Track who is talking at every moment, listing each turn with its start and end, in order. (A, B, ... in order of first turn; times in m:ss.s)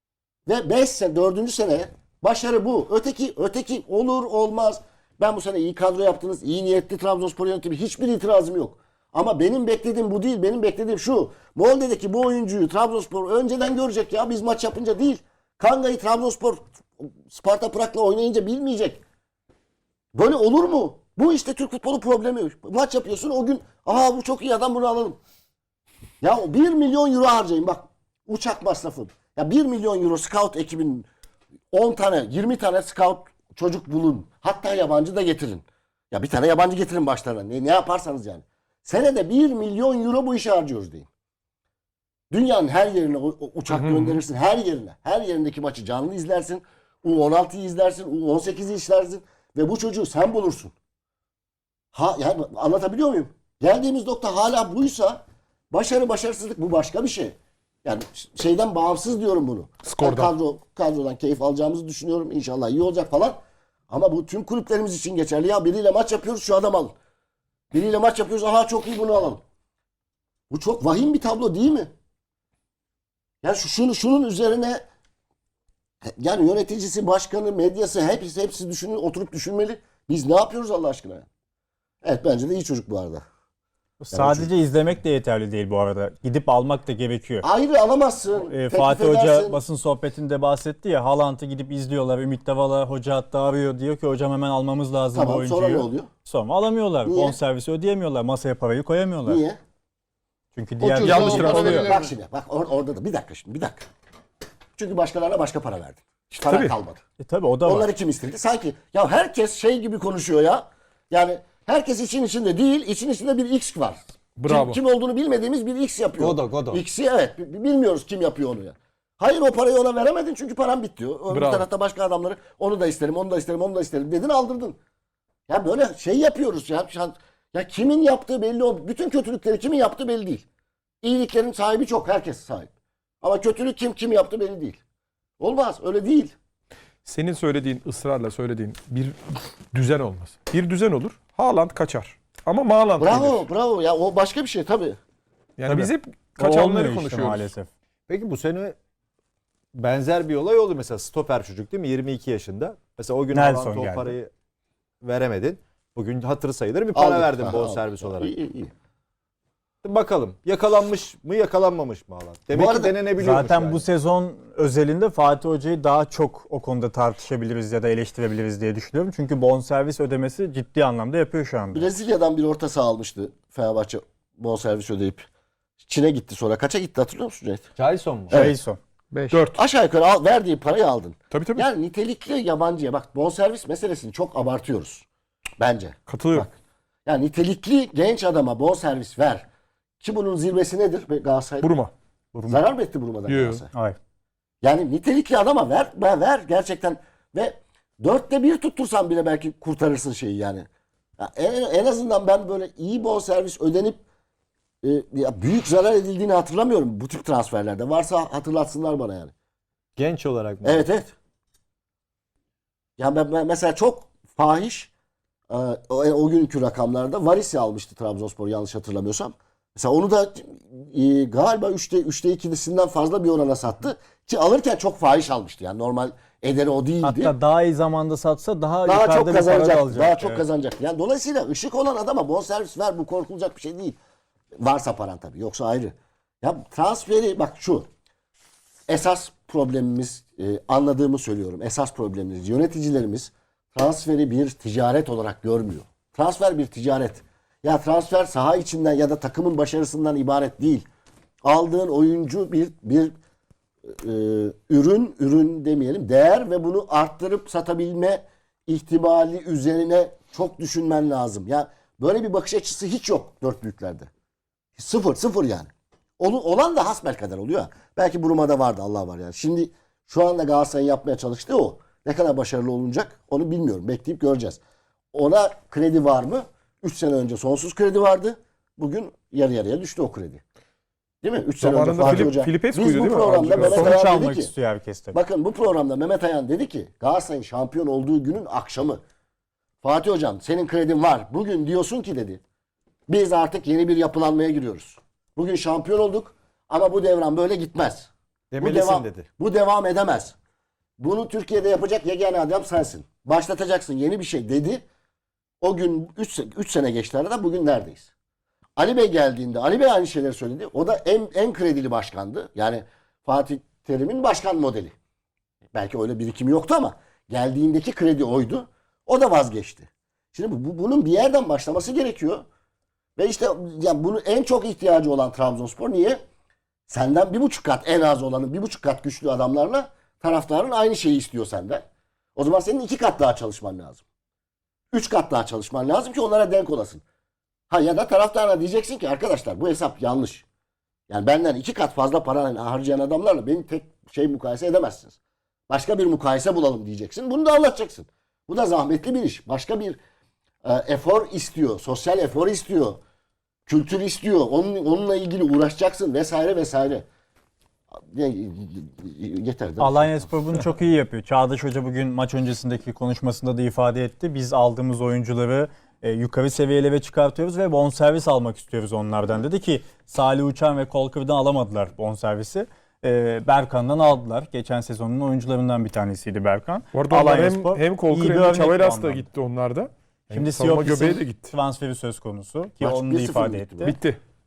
0:00.5-0:19.0 A
0:20.1-0:25.2 A
0:26.2-0:31.1 A
0:31.7-0:41.1 A
0:42.3-0:50.8 A
0:43.7-0:44.2 B
0:51.9-1:03.4 A
0:59.8-1:00.3 B
1:03.9-1:06.9 A
1:07.7-1:09.4 A
1:10.5-1:11.9 A
1:13.4-1:14.8 A
1:16.1-1:21.3 A
1:22.0-1:23.2 A
1:24.0-1:27.5 C
1:24.1-1:24.5 A
1:27.4-1:29.6 A
1:28.4-1:39.4 C
1:35.1-1:36.1 A
1:37.0-1:37.4 A
1:39.3-1:39.6 A
1:40.6-1:42.0 C
1:41.0-1:42.0 B
1:41.0-1:43.9 A
1:44.8-1:47.0 A
1:46.4-1:46.7 B
1:47.2-1:47.9 C
1:47.6-2:04.8 A
1:54.4-1:54.8 B
1:56.2-1:56.8 D
2:01.3-2:01.7 B
2:05.5-2:10.5 A
2:11.0-2:14.8 A
2:15.4-2:16.4 A
2:17.0-2:19.2 B
2:19.7-2:23.4 B
2:23.0-2:25.0 A
2:25.6-2:27.5 B
2:25.7-2:27.7 C
2:28.1-2:28.8 D
2:29.7-2:34.3 D
2:33.3-2:34.2 C
2:35.0-2:38.3 D
2:36.9-2:38.7 A
2:39.8-2:43.8 D
2:42.5-2:43.0 A
2:43.2-2:51.9 C
2:51.7-2:55.3 A
2:55.8-2:57.6 A
2:57.8-2:58.5 D
2:58.3-2:58.8 C
2:59.1-2:59.6 B
2:59.3-3:05.1 A
3:01.3-3:01.7 B
3:05.6-3:06.5 A
3:06.1-3:06.5 B
3:07.1-3:09.4 A
3:10.0-3:11.7 A
3:11.6-3:11.9 B
3:12.4-3:12.6 C
3:12.5-3:13.7 A
3:13.3-3:13.6 B
3:14.6-3:20.7 A
3:21.2-3:24.0 A
3:24.8-3:29.3 A
3:30.0-3:30.8 D
3:30.6-3:31.1 A
3:33.0-3:34.9 A
3:35.5-3:47.3 A
3:47.0-3:50.4 C
3:48.9-3:54.0 A
3:54.6-3:57.9 A
3:58.9-4:10.9 A
4:11.4-4:13.1 A
4:13.9-4:24.1 A
4:24.8-4:34.6 A
4:35.1-4:40.4 A
4:41.2-4:44.5 A
4:41.6-4:44.0 B
4:43.6-4:45.2 C
4:45.1-4:49.0 A
4:49.8-4:52.4 A
4:53.1-5:00.4 A
4:58.5-4:59.3 D
5:01.0-5:04.8 A
5:05.6-5:08.1 A
5:08.8-5:15.0 A
5:15.7-5:22.4 A
5:23.2-5:26.2 A
5:26.9-5:34.0 A
5:34.9-5:37.0 A
5:37.7-5:40.5 A
5:41.1-5:45.2 A
5:45.7-5:50.0 A
5:50.6-5:53.0 A
5:53.7-5:57.1 A
5:58.0-6:00.3 A
5:59.8-6:19.2 C
6:16.9-6:21.5 B
6:20.3-6:24.0 C
6:22.8-6:24.0 A
6:23.8-6:24.2 B